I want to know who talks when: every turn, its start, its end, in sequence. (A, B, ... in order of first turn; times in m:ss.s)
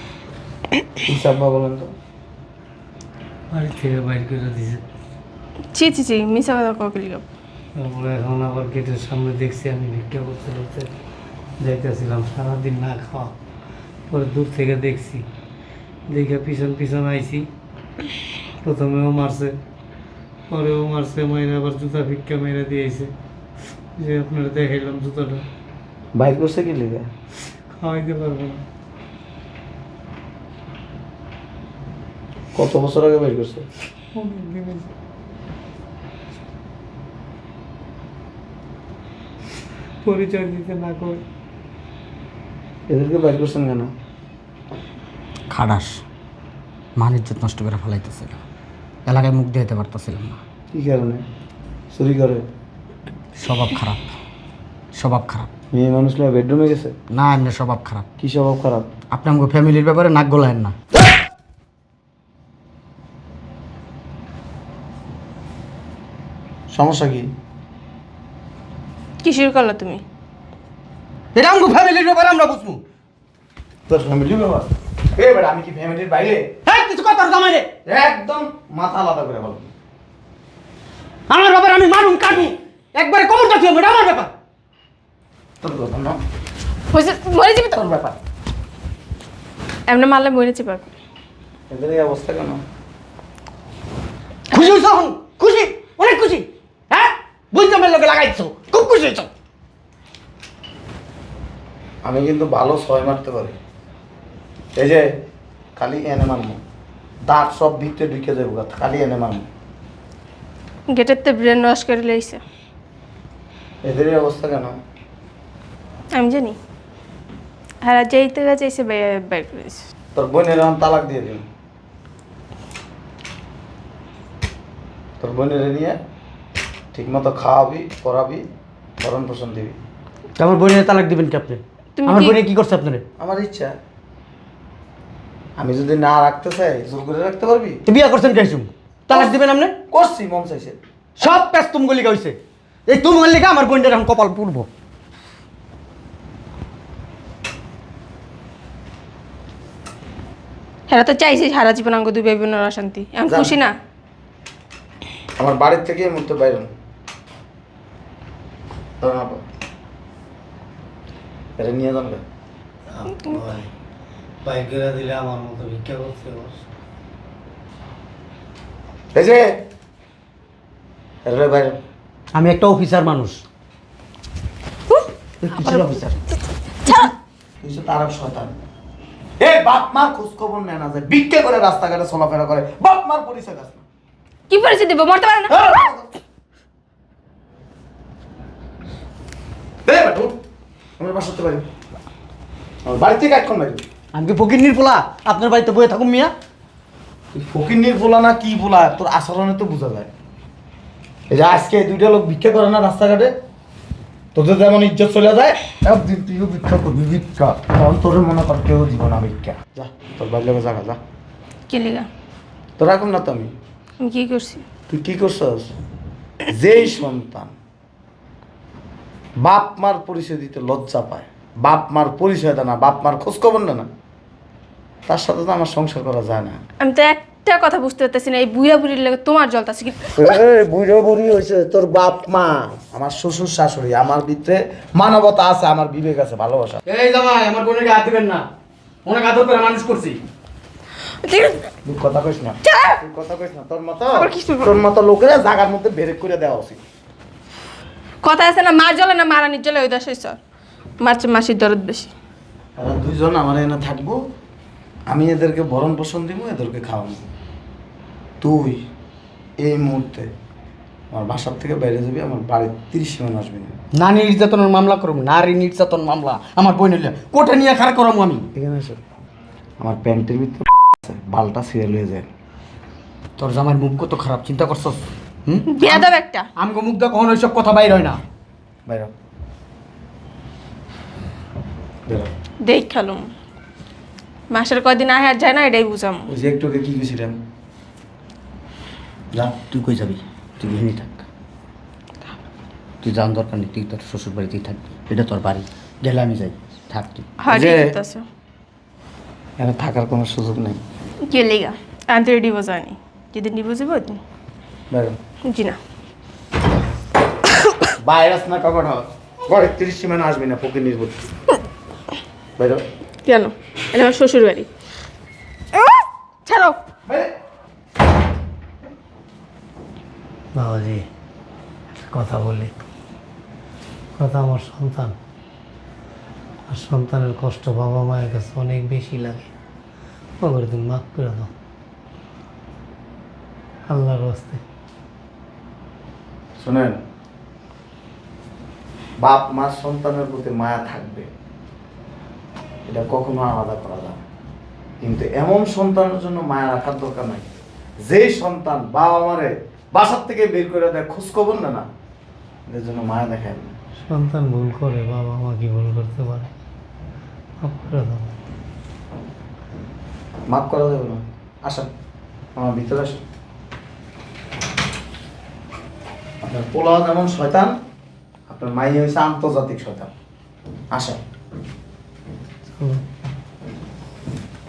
0:01.0-0:01.9 A
0:03.5-0:04.8 B
0:05.7-0:07.2 C
0:07.8-0:10.9 B
0:11.6-0:13.3 B
0:14.1-0:15.2 B
0:16.1-0:17.5 B
0:18.6-0:19.6 B
0:20.5-0:23.1 B
0:24.0-0:25.5 B
0:26.2-0:27.1 A
0:27.8-0:28.6 B
0:32.5-0:33.7 A
0:34.2-0:34.9 B
0:40.0-0:41.2 B
0:42.9-0:43.9 A
0:45.5-0:46.0 D
0:47.0-0:48.4 D
0:49.1-0:50.4 D
0:50.7-0:51.2 A
0:51.9-0:52.4 A
0:53.4-0:54.2 D
0:55.0-0:55.5 D
0:55.7-0:56.9 A
0:57.1-0:58.1 D
0:58.2-0:58.9 A
0:59.1-1:00.8 D
1:06.7-1:07.3 A
1:09.2-1:10.0 C
1:11.4-1:12.8 D
1:13.9-1:16.5 A
1:16.7-1:17.7 D
1:17.9-1:19.7 A
1:21.3-1:24.3 D
1:25.6-1:26.2 A
1:26.9-1:27.8 C
1:27.7-1:28.2 A
1:29.9-1:30.9 C
1:31.7-1:32.6 A
1:34.5-1:39.3 D
1:42.0-1:43.6 A
1:44.8-1:45.0 A
1:45.8-1:46.6 A
1:47.2-1:49.5 A
1:50.9-1:52.4 C
1:53.8-1:54.8 A
1:56.2-1:56.6 C
1:57.8-1:59.9 C
2:00.2-2:01.4 A
2:05.2-2:06.0 A
2:06.9-2:08.4 A
2:09.0-2:09.8 A
2:10.4-2:13.0 D
2:12.0-2:12.4 C
2:13.2-2:13.8 A
2:15.6-2:17.8 A
2:17.9-2:19.8 D
2:19.9-2:20.8 A
2:21.2-2:22.4 D
2:22.9-2:24.7 D
2:30.9-2:33.7 C
2:33.3-2:33.6 A
2:35.4-2:36.7 A
2:39.0-2:39.4 A
2:41.6-2:42.2 A
2:42.9-2:43.7 B
2:44.4-2:46.6 B
2:49.1-2:49.6 A
2:51.2-2:51.8 A
2:52.3-2:53.4 D
2:55.4-2:56.2 D
2:55.6-2:56.0 A
2:56.8-2:57.1 C
2:57.6-2:58.6 A
2:59.4-3:03.8 A
3:04.5-3:05.8 C
3:05.6-3:06.0 A
3:09.9-3:10.4 A
3:11.0-3:11.7 A
3:12.8-3:13.9 A
3:14.1-3:16.3 D
3:17.3-3:20.1 A
3:21.3-3:23.3 A
3:24.4-3:31.0 A
3:31.7-3:32.1 C
3:32.8-3:33.5 A
3:34.0-3:34.6 C
3:34.9-3:35.7 A
3:36.5-3:37.5 A
3:39.4-3:43.9 A
3:45.1-3:46.6 A
3:46.8-3:50.1 C
3:50.2-3:56.8 A
3:56.9-3:58.5 D
3:59.0-4:00.2 D
4:01.2-4:01.7 C
4:01.8-4:06.8 A
4:02.6-4:03.0 C
4:04.2-4:04.8 C
4:08.2-4:10.4 C
4:11.0-4:12.1 C
4:12.8-4:14.2 A
4:15.1-4:17.3 A
4:18.4-4:18.8 A
4:19.6-4:20.3 A
4:21.1-4:23.7 A
4:24.0-4:28.5 D
4:28.6-4:29.0 A
4:29.8-4:32.3 A
4:33.4-4:38.2 D
4:35.7-4:36.5 C
4:38.9-4:39.1 A
4:42.1-4:42.3 A
4:42.7-4:43.3 C
4:44.5-4:46.3 C
4:46.3-4:47.4 A
4:49.3-4:51.2 D
4:53.0-4:57.3 D
4:57.4-4:58.2 C
4:57.5-4:57.9 A
4:59.6-5:00.8 A
5:01.3-5:04.2 C
5:04.9-5:05.2 A
5:05.5-5:05.8 C
5:08.0-5:11.2 A
5:12.6-5:12.8 A
5:13.2-5:14.7 C
5:15.7-5:16.8 C
5:17.1-5:17.3 A
5:20.6-5:21.1 B
5:22.0-5:22.8 B
5:24.2-5:25.2 B
5:26.7-5:29.5 B
5:30.4-5:31.5 B
5:33.9-5:34.6 B
5:36.6-5:37.0 A
5:39.2-5:41.3 A
5:42.9-5:44.2 A
5:45.0-5:47.5 A
5:48.0-5:51.8 A
5:52.7-5:53.7 A
5:54.1-5:56.5 B
5:57.6-5:58.4 B
6:00.5-6:01.9 A
6:02.6-6:03.2 A
6:06.4-6:07.8 A
6:08.5-6:10.1 A
6:10.9-6:11.2 A
6:12.8-6:13.0 B